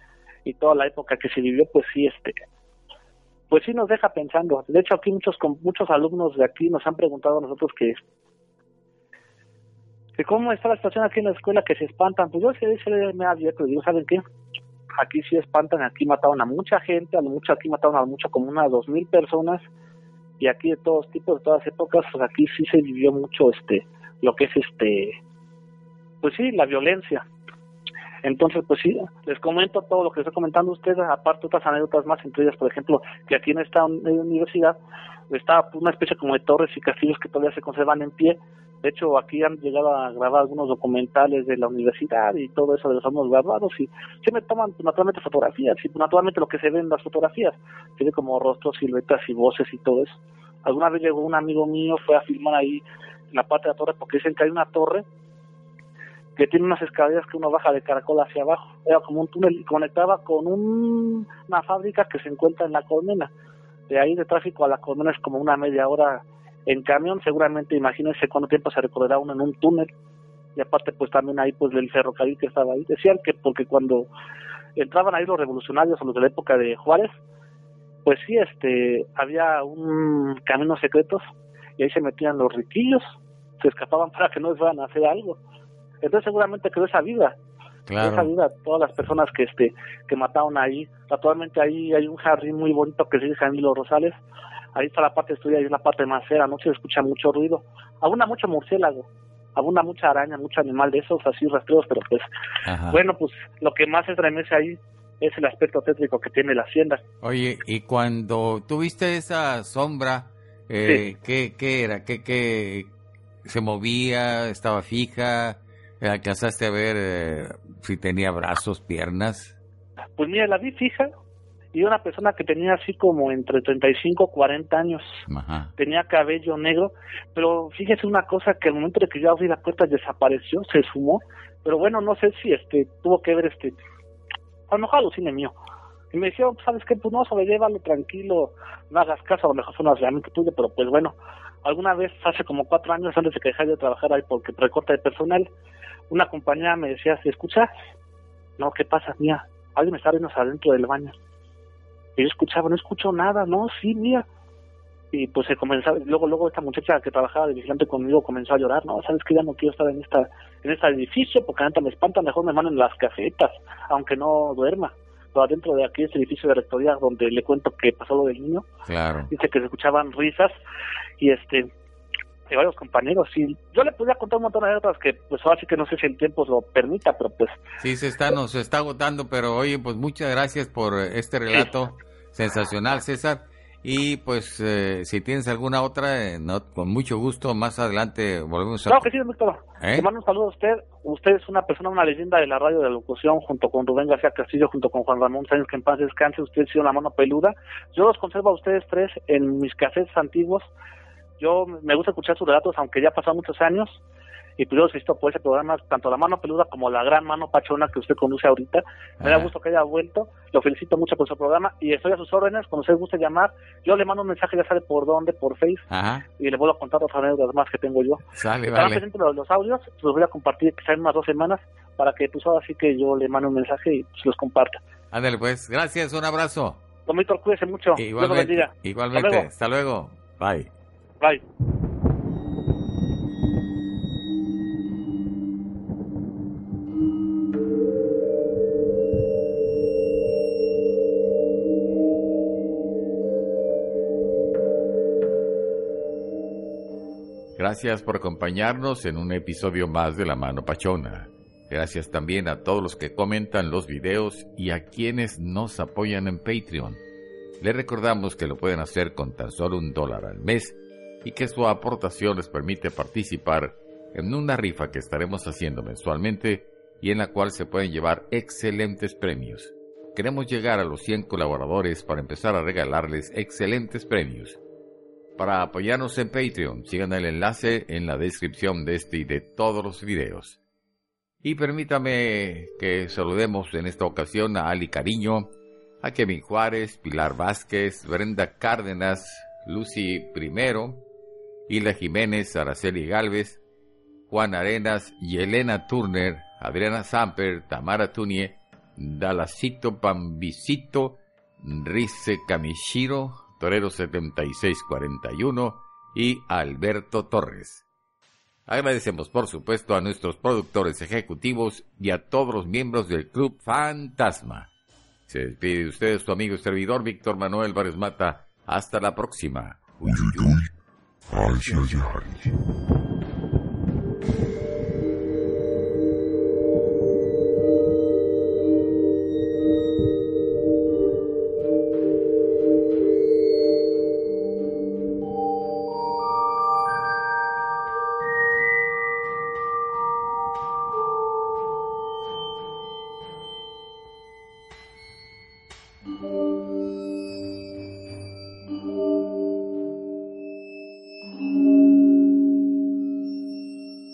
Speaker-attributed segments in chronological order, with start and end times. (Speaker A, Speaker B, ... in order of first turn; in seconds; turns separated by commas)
Speaker A: 0.4-2.3, Speaker A: 3.5-8.0, Speaker A: 10.2-14.2, Speaker A: 15.0-19.7, Speaker A: 20.4-25.2, Speaker A: 26.2-27.2, Speaker A: 28.2-34.8, Speaker A: 35.3-55.0, Speaker A: 56.4-63.3, Speaker A: 63.9-69.9, Speaker A: 70.5-74.1, Speaker A: 74.8-77.2, Speaker A: 78.0-81.2, Speaker A: 81.8-85.4, Speaker A: 86.0-87.3, Speaker B: 87.9-88.3, Speaker A: 88.0-94.2, Speaker A: 94.7-102.2, Speaker B: 102.6-103.0, Speaker A: 102.9-107.0, Speaker B: 107.2-112.9, Speaker B: 113.4-119.6, Speaker A: 120.2-121.1, Speaker A: 121.7-125.2, Speaker B: 125.3-125.7, Speaker A: 125.8-133.8, Speaker A: 134.7-135.5, Speaker A: 136.1-145.5, Speaker A: 146.1-147.7, Speaker A: 148.6-151.1, Speaker A: 152.2-154.2, Speaker A: 155.1-168.6, Speaker B: 168.8-169.3, Speaker A: 169.3-170.5, Speaker A: 171.2-171.7, Speaker A: 172.5-177.6, Speaker B: 177.8-189.1, Speaker A: 188.9-200.7, Speaker B: 189.8-190.1, Speaker A: 201.4-204.0, Speaker A: 204.6-215.8, Speaker B: 209.2-209.5, Speaker B: 215.9-216.2, Speaker A: 216.4-218.2, Speaker B: 218.3-219.0, Speaker A: 218.7-224.8, Speaker B: 225.1-226.8, Speaker A: 227.1-229.4, Speaker B: 227.9-230.7, Speaker B: 247.6-257.0, Speaker B: 257.6-274.6, Speaker B: 275.4-280.6, Speaker B: 281.4-285.5, Speaker B: 286.0-291.0, Speaker B: 291.7-293.6, Speaker B: 294.3-307.8, Speaker B: 308.7-314.7, Speaker B: 315.3-320.7, Speaker B: 321.3-322.4